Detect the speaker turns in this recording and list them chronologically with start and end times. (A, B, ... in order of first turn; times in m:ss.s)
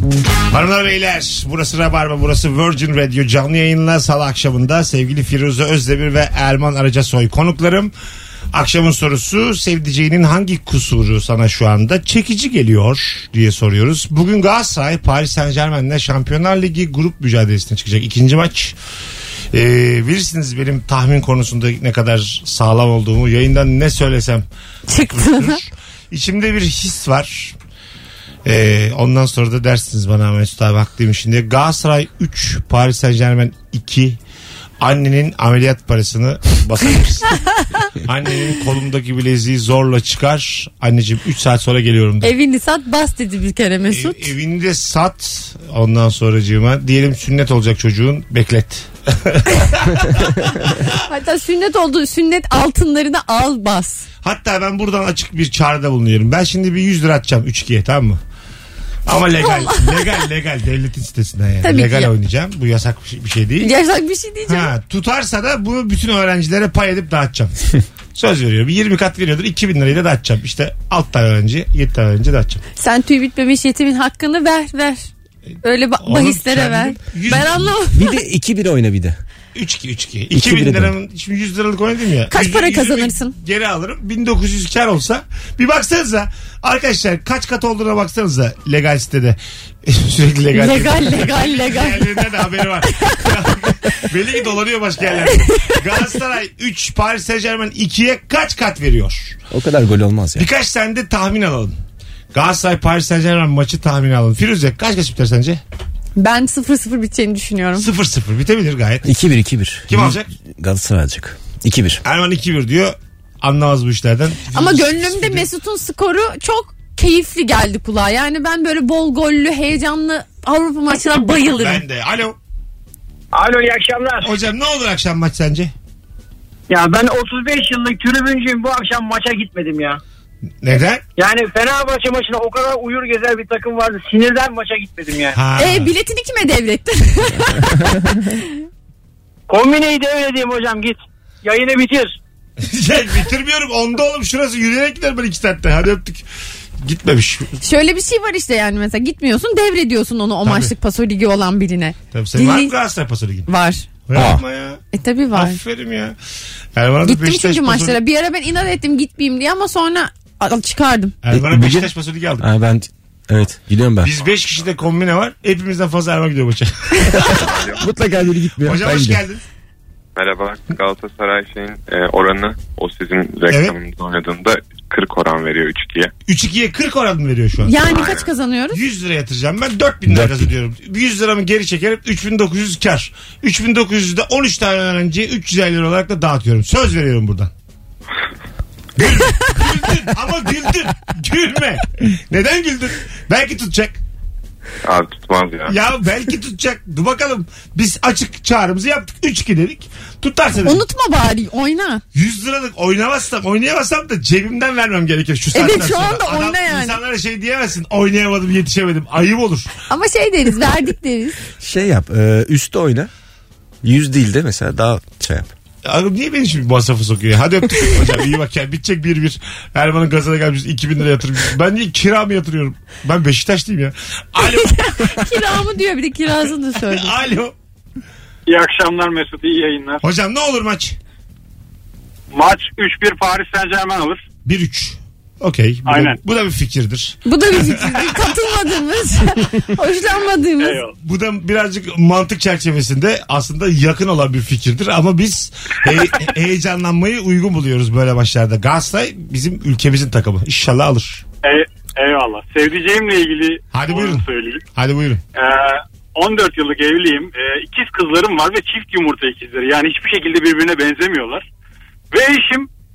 0:00.5-0:07.9 A
0:08.5-0:18.8 A
0:19.5-0:27.6 A
0:24.9-0:25.6 B
0:28.4-0:34.2 A
0:34.8-0:42.3 A
0:42.2-0:44.3 B
0:43.9-0:50.9 A
0:51.0-0:54.1 B
0:54.2-0:58.2 A
0:59.1-1:03.7 A
0:59.4-1:00.3 B
1:01.6-1:02.1 B
1:03.6-1:04.7 B
1:04.5-1:12.6 A
1:12.8-1:15.1 B
1:15.6-1:18.2 B
1:16.0-1:17.7 A
1:17.9-1:19.2 C
1:19.6-1:39.4 A
1:20.3-1:20.9 C
1:22.3-1:23.4 B
1:30.5-1:32.1 B
1:39.5-1:40.5 C
1:40.4-1:41.8 A
1:42.3-1:45.6 A
1:46.2-1:47.9 B
1:47.8-1:49.1 A
1:49.0-1:52.0 C
1:49.9-1:50.3 A
1:52.0-1:55.5 A
1:54.5-2:01.8 B
2:01.5-2:02.4 A
2:03.3-2:04.3 D
2:04.2-2:05.7 A
2:06.7-2:10.0 D
2:10.6-2:11.0 A
2:11.2-2:15.4 D
2:15.3-2:15.9 A
2:15.6-2:18.4 B
2:19.5-2:22.2 D
2:22.6-2:26.2 A
2:26.8-2:27.6 A
2:27.6-2:32.7 B
2:30.4-2:30.7 A
2:32.1-2:33.5 A
2:33.5-2:33.9 B
2:34.1-2:36.2 A
2:34.1-2:34.4 C
2:34.9-2:35.6 B
2:36.8-2:38.0 A
2:37.0-2:41.2 B
2:41.2-2:42.5 A
2:41.3-2:44.1 C
2:44.0-2:47.6 A
2:47.3-2:47.9 E
2:47.8-2:49.2 C
2:48.6-2:49.4 A
2:50.2-2:56.1 E
2:53.5-2:53.8 A
2:56.3-2:57.9 A
2:57.6-2:58.8 B
2:57.8-2:58.3 E
2:58.7-3:07.5 A
3:00.1-3:00.5 C
3:09.0-3:14.0 A
3:14.8-3:15.8 E
3:15.7-3:20.8 A
3:20.6-3:22.0 B
3:22.1-3:29.7 A
3:25.5-3:27.0 B
3:29.9-3:31.4 B
3:31.6-3:33.1 C
3:33.8-3:35.5 C
3:35.8-3:45.3 A
3:44.4-3:47.1 B
3:46.9-3:47.6 A
3:48.5-3:50.0 F
3:50.0-3:51.0 A
3:52.3-3:54.2 F
3:54.4-3:58.2 A
3:55.9-3:56.2 F
3:57.2-4:00.8 B
4:00.6-4:01.0 F
4:01.0-4:11.2 A
4:11.4-4:14.6 F
4:13.7-4:15.2 A
4:15.4-4:21.5 F
4:22.1-4:22.7 F